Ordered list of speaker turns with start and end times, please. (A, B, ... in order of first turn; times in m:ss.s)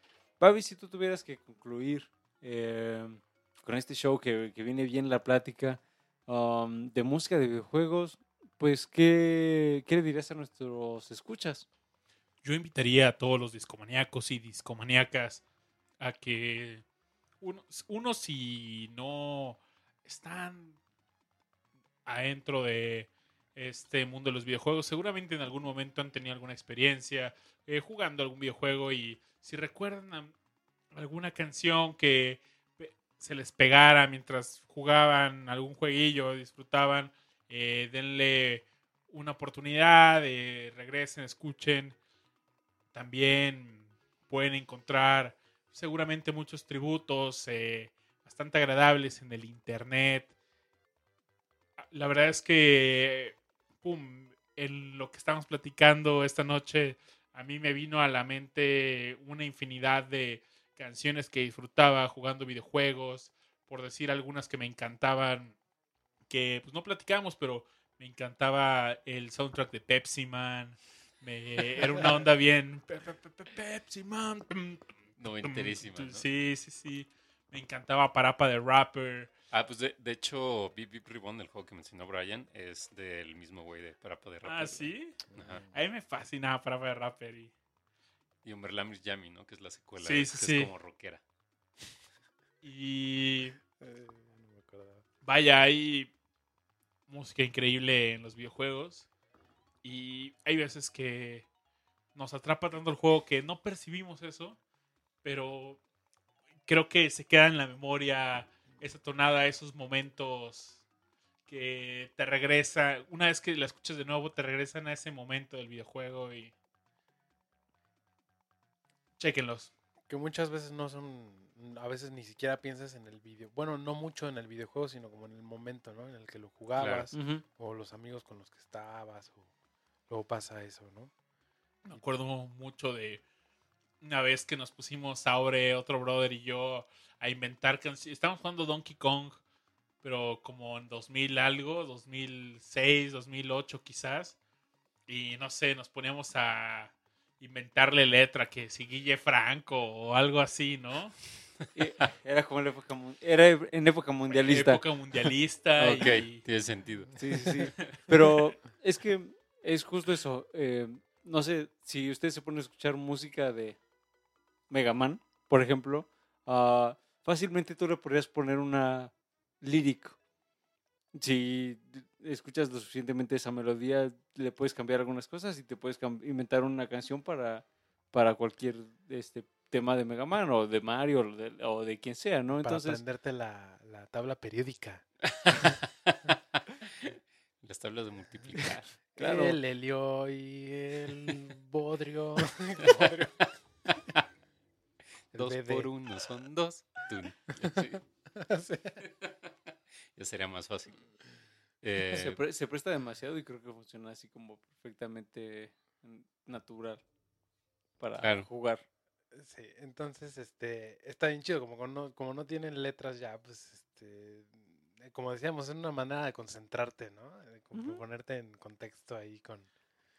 0:00.4-0:11.7 A
0:12.4-0:15.4 B
0:16.0-0:16.8 B
0:17.4-0:20.8 B
0:22.1-0:30.3 B
0:30.9-0:42.0 B
0:42.9-0:50.3 B
0:51.8-1:05.6 B
1:06.3-1:14.9 B
1:15.2-1:16.2 C
1:15.4-1:19.3 B
1:19.5-1:25.6 C
1:24.4-1:27.5 B
1:25.3-1:25.6 D
1:28.4-1:31.2 C
1:30.0-1:30.7 B
1:32.6-1:33.6 B
1:33.8-1:35.0 D
1:35.2-1:36.1 B
1:37.1-1:39.1 B
1:39.8-1:41.5 B
1:42.2-1:44.6 B
1:45.2-1:45.8 B
1:46.7-1:50.8 B
1:51.5-1:56.5 B
1:59.2-1:59.7 B
2:00.1-2:09.5 D
2:06.8-2:07.1 C
2:07.1-2:07.4 A
2:10.1-2:11.1 D
2:11.8-2:13.2 B
2:14.0-2:19.4 B
2:20.0-2:24.4 B
2:25.1-2:31.2 B
2:31.8-2:34.8 A
2:34.3-2:36.4 B
2:35.8-2:37.1 C
2:37.2-2:43.8 A
2:44.7-2:50.2 A
2:51.2-3:03.0 A
3:02.6-3:05.0 D
3:05.3-3:06.3 C
3:06.9-3:08.9 C
3:08.6-3:09.6 A
3:09.2-3:13.5 D
3:13.9-3:14.2 C
3:15.3-3:15.9 D
3:15.3-3:18.0 C
3:18.4-3:19.0 D
3:19.0-3:19.5 C
3:20.2-3:21.1 C
3:21.8-3:22.4 C
3:22.1-3:27.0 A
3:28.0-3:28.8 A
3:28.2-3:28.5 C
3:29.3-3:39.7 D
3:37.7-3:38.0 A